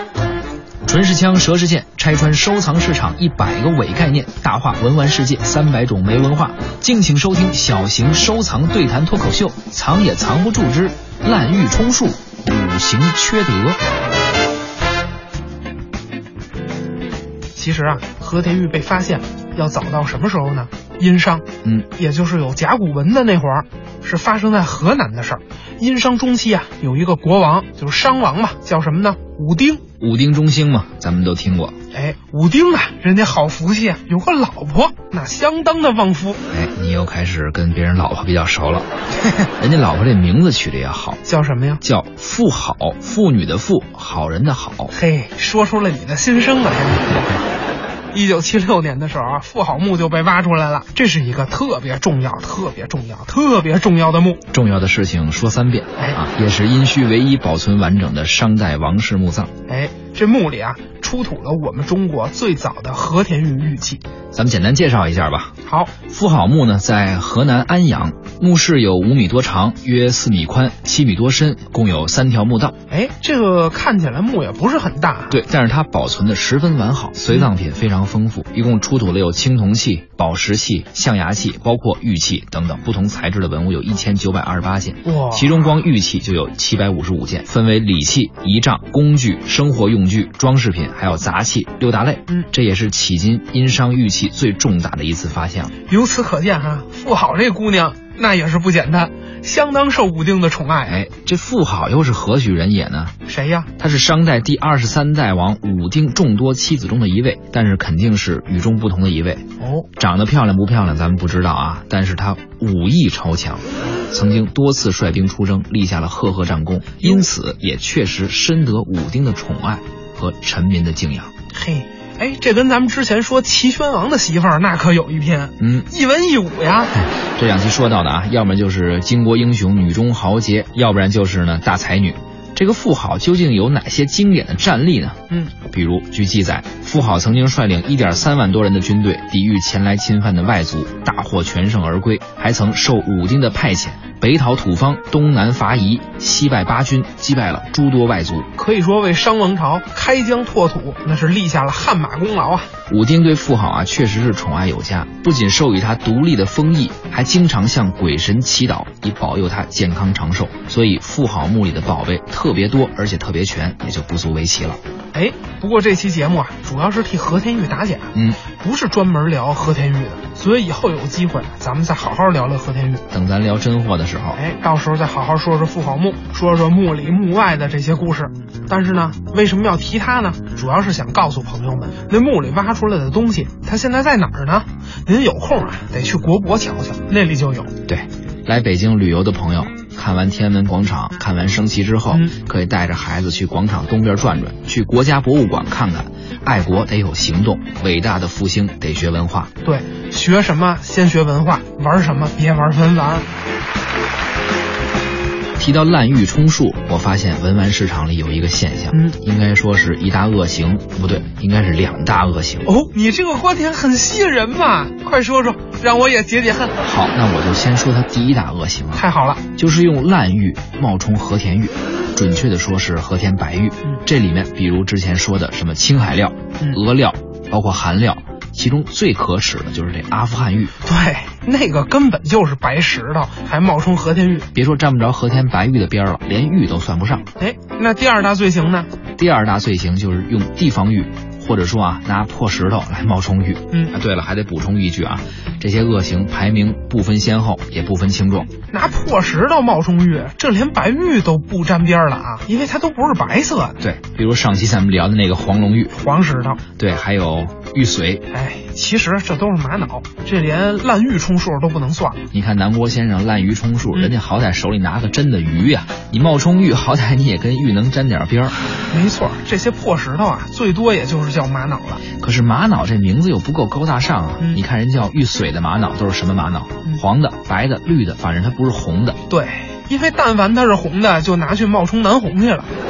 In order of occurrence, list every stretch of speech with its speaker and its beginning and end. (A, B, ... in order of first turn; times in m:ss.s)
0:00.8-0:13.8 A
0:17.6-0:29.8 B
0:30.0-0:31.8 A
0:31.9-0:36.4 B
0:36.5-0:38.9 A
0:39.6-0:41.2 A
0:41.2-0:41.8 B
0:41.8-0:44.9 A
0:44.9-0:47.4 B
0:48.1-0:54.4 B
0:54.5-0:59.5 A
0:59.7-1:04.0 B
1:04.3-1:05.5 A
1:05.6-1:05.9 B
1:06.1-1:12.8 A
1:12.9-1:15.4 B
1:15.3-1:35.7 A
1:25.0-1:25.8 B
1:35.9-1:41.0 B
1:40.9-1:43.2 A
1:43.3-1:43.7 B
1:43.8-1:49.4 A
1:49.6-1:49.9 B
1:50.0-2:01.3 A
1:57.0-1:57.3 B
2:01.5-2:06.9 B
2:05.6-2:05.9 A
2:07.0-2:28.5 A
2:28.6-2:32.7 B
2:32.9-2:44.8 A
2:45.1-2:53.0 B
2:48.1-2:48.4 A
2:53.1-2:54.4 A
2:54.4-3:07.7 B
3:07.9-3:19.5 A
3:19.6-3:23.3 B
3:25.6-3:32.7 A
3:32.7-3:36.8 B
3:36.8-3:39.0 A
3:38.9-3:39.4 B
3:39.6-3:50.8 A
3:50.8-3:54.5 B
3:54.5-3:57.3 A
3:57.4-3:58.9 B
3:59.2-4:08.5 A
4:08.7-4:13.8 B
4:13.8-4:15.9 A
4:15.9-4:16.6 B
4:16.8-4:18.2 A
4:18.3-4:22.2 B
4:22.3-4:28.6 A
4:28.9-4:32.0 B
4:32.2-4:39.2 A
4:39.3-4:42.7 B